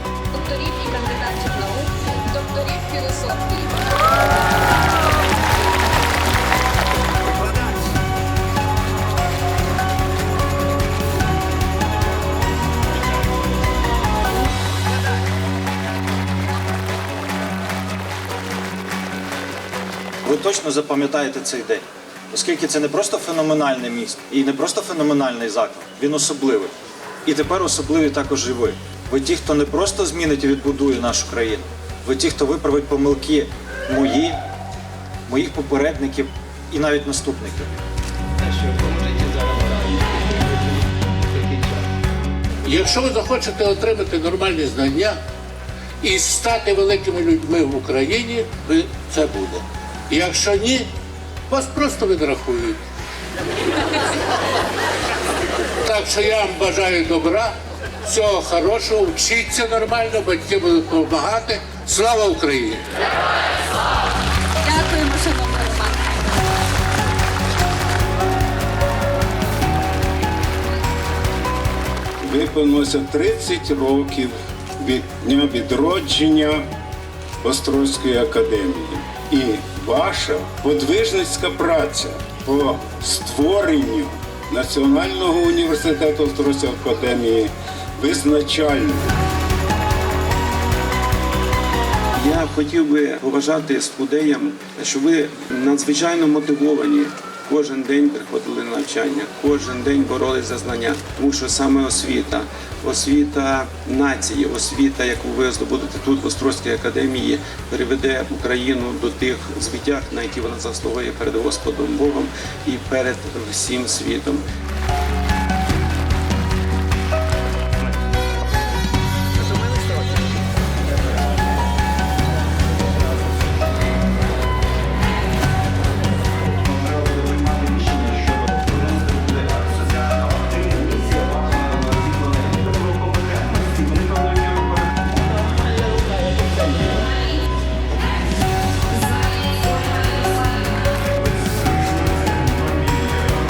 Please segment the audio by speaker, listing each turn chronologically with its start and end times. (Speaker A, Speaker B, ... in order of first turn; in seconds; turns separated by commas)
Speaker A: 0.3-3.8, Speaker B: 20.2-26.7, Speaker B: 27.3-34.4, Speaker B: 35.3-37.7, Speaker C: 42.6-45.2, Speaker C: 46.0-50.9, Speaker C: 51.5-52.8, Speaker C: 55.8-62.8, Speaker A: 64.6-66.0, Speaker D: 72.2-76.7, Speaker D: 77.4-89.1, Speaker E: 92.1-114.5, Speaker D: 141.2-143.2